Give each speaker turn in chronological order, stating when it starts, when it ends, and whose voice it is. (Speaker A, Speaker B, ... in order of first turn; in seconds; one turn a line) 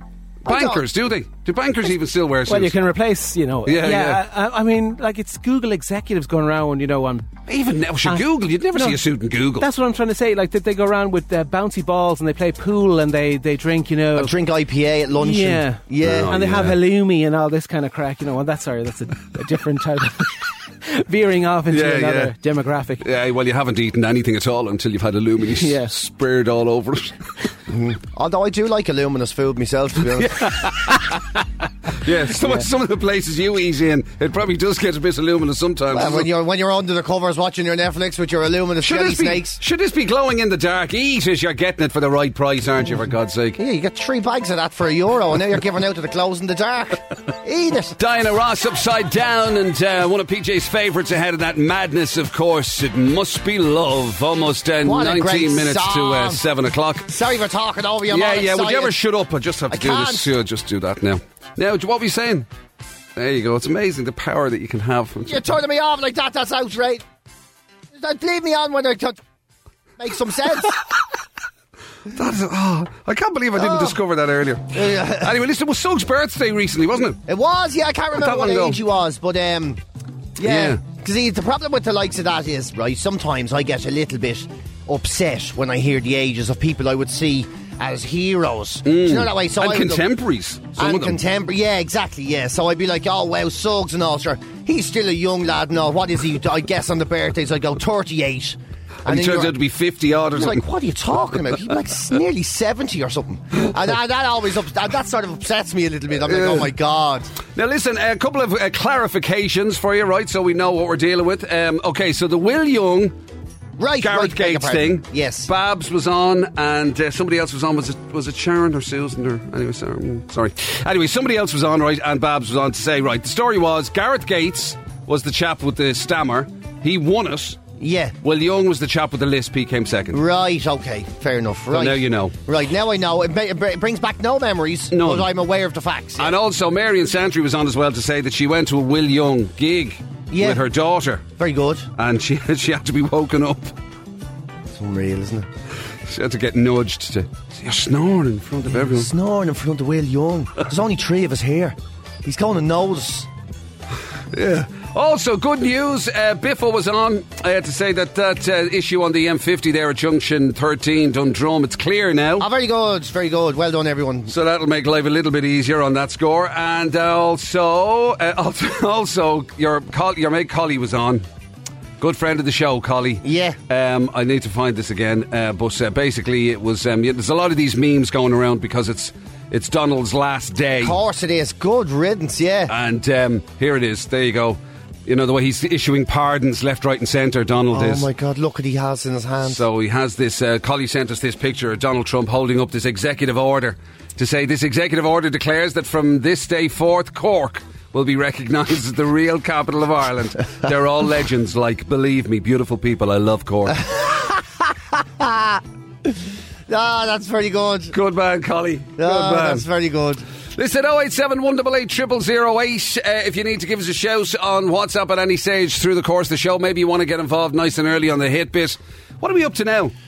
Speaker A: 0.5-0.8
Speaker B: 0.5-2.8
Speaker C: 2.5-7.3
Speaker B: 3.7-4.2
Speaker B: 7.5-9.7
Speaker C: 8.1-9.0
Speaker C: 9.6-14.4
Speaker A: 14.2-16.4
Speaker C: 15.1-23.0
Speaker B: 16.0-16.8
Speaker B: 21.7-22.3
Speaker B: 23.0-27.2
Speaker C: 25.5-25.9
Speaker A: 27.7-30.8
Speaker B: 30.2-31.3
Speaker B: 31.9-36.3
Speaker A: 35.9-39.6
Speaker B: 38.8-43.6
Speaker A: 43.6-48.0
Speaker B: 48.0-57.1
Speaker A: 54.8-56.4
Speaker A: 57.1-59.0
Speaker B: 58.1-62.5
Speaker A: 59.7-60.3
Speaker B: 63.2-65.4
Speaker A: 65.2-67.0
Speaker A: 67.9-69.2
Speaker A: 70.0-70.8
Speaker B: 72.1-77.2
Speaker A: 73.6-74.0
Speaker A: 74.7-75.3
Speaker A: 77.3-79.8
Speaker B: 78.2-78.8
Speaker A: 80.4-90.1
Speaker B: 80.4-80.8
Speaker B: 88.8-91.2
Speaker A: 90.8-99.6
Speaker B: 99.1-100.6
Speaker A: 100.3-107.3
Speaker B: 106.2-106.7
Speaker B: 107.5-113.2
Speaker A: 113.8-115.5
Speaker B: 114.0-127.6
Speaker A: 127.8-128.2
Speaker B: 128.2-130.2
Speaker A: 130.1-136.3
Speaker B: 131.7-132.3
Speaker B: 134.9-135.3
Speaker B: 136.2-141.2
Speaker A: 140.3-140.6
Speaker A: 141.4-141.9
Speaker B: 142.0-143.7
Speaker A: 144.7-145.5
Speaker B: 146.1-149.1
Speaker A: 148.7-153.3
Speaker B: 154.3-162.5
Speaker A: 162.4-164.3
Speaker B: 164.3-171.2
Speaker B: 172.0-181.0
Speaker A: 173.2-173.6
Speaker A: 180.8-182.7
Speaker B: 182.7-188.1
Speaker A: 187.7-189.6
Speaker B: 189.4-203.8
Speaker A: 203.7-206.2
Speaker A: 206.7-207.9
Speaker B: 207.9-209.7
Speaker A: 209.0-210.2
Speaker B: 210.6-219.9